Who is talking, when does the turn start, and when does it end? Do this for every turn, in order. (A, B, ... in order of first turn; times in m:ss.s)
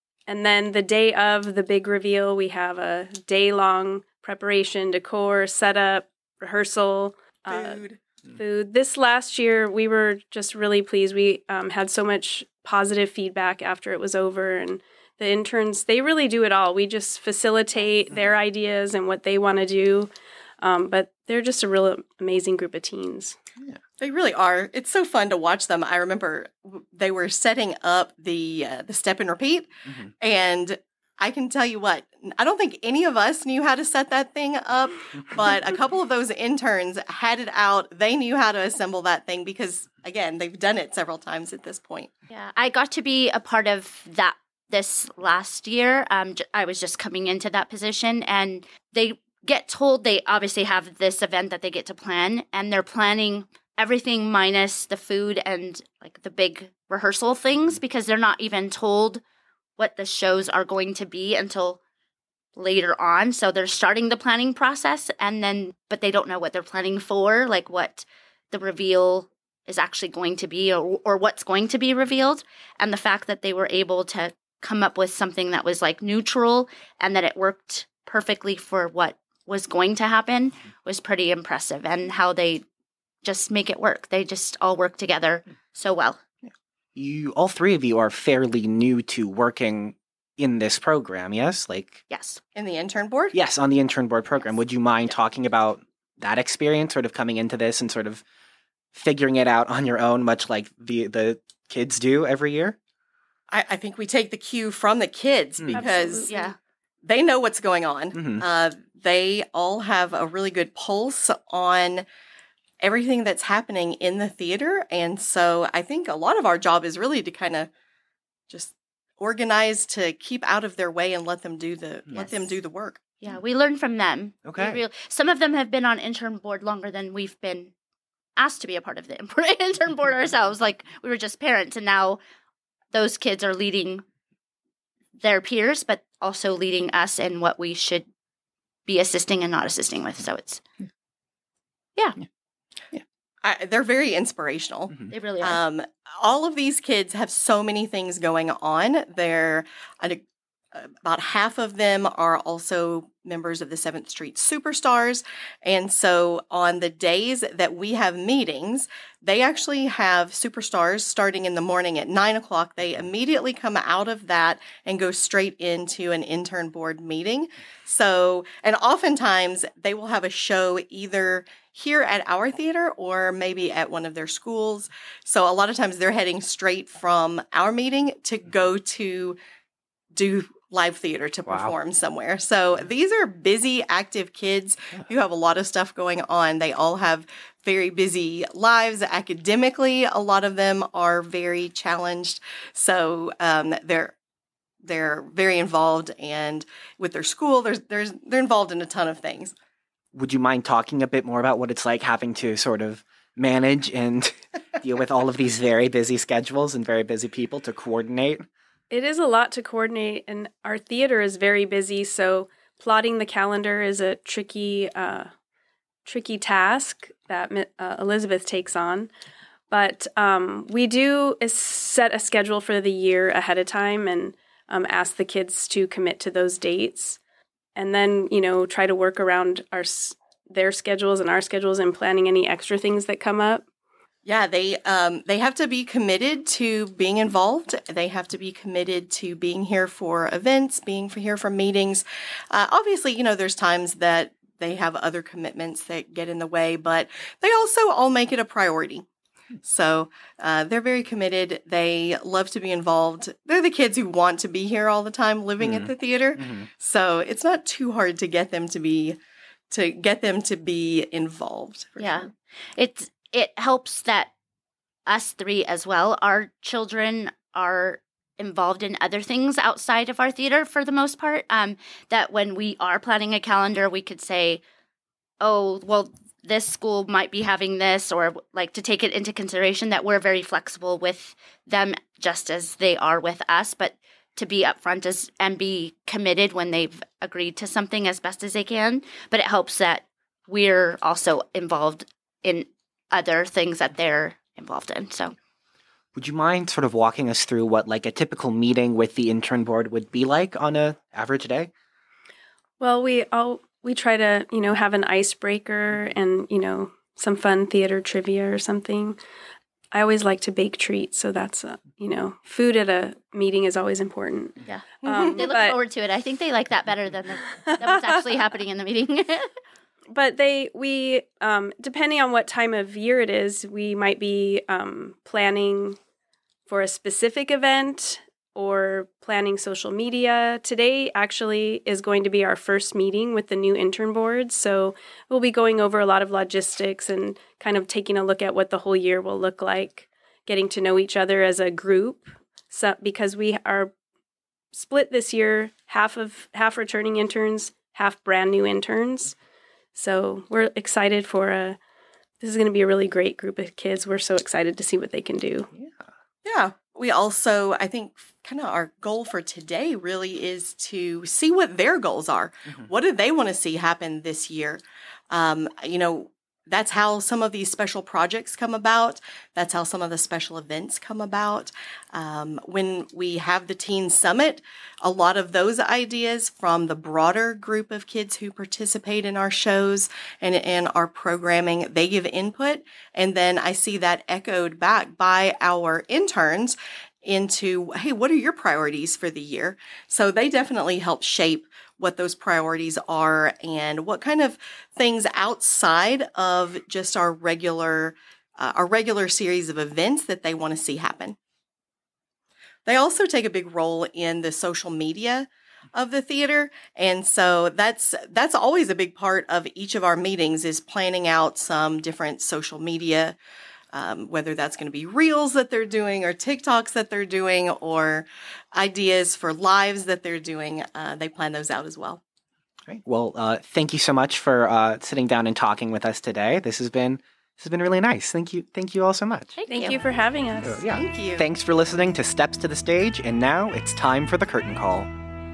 0:00.3-0:23.4 A
0:07.5-0:08.0 B
0:24.0-0:42.1 B
0:42.3-0:59.2 C
0:59.8-1:01.8 C
1:02.6-1:22.6 C
1:23.2-1:26.2 C
1:26.5-1:32.0 D
1:32.1-1:32.4 C
1:32.6-1:33.4 B
1:33.3-1:38.2 D
1:38.9-1:42.8 D
1:43.5-1:46.3 B
1:45.6-1:45.8 D
1:45.7-1:46.5 A
1:46.2-1:46.6 C
1:47.0-1:52.0 B
1:48.1-1:48.4 D
1:52.8-1:57.7 B
1:58.5-2:03.0 B
2:02.1-2:02.5 C
2:03.2-2:07.7 C
2:04.4-2:04.8 D
2:08.4-2:12.2 C
2:12.9-2:14.0 C
2:15.2-2:18.1 C
2:18.9-2:20.6 C
2:23.4-2:30.2 B
2:25.1-2:25.6 C
2:30.7-2:59.4 B
3:00.1-3:14.2 B
3:01.5-3:01.7 D
3:14.8-3:19.5 B
3:20.1-3:28.4 D
3:28.9-3:35.3 A
3:36.0-3:39.1 A
3:39.7-3:47.2 A
3:47.8-3:53.6 A
3:54.2-4:09.1 B
4:09.6-4:19.2 B
4:15.6-4:16.7 D
4:19.7-4:22.2 B
4:22.0-4:24.3 C
4:25.1-4:34.6 C
4:35.4-4:55.4 C
4:56.2-5:01.7 D
5:02.8-5:09.2 A
5:09.9-5:15.8 A
5:14.6-5:19.5 C
5:20.1-5:26.0 A
5:26.7-5:43.9 A
5:44.7-5:49.4 A
5:50.0-5:51.8 A
5:52.4-5:55.7 A
5:55.8-5:56.0 D
5:56.4-6:41.4 B
6:42.9-6:53.4 B
6:53.9-7:02.2 B
7:02.9-7:09.6 D
7:09.6-7:10.0 C
7:09.7-7:10.8 A
7:10.6-7:15.1 D
7:10.9-7:11.5 B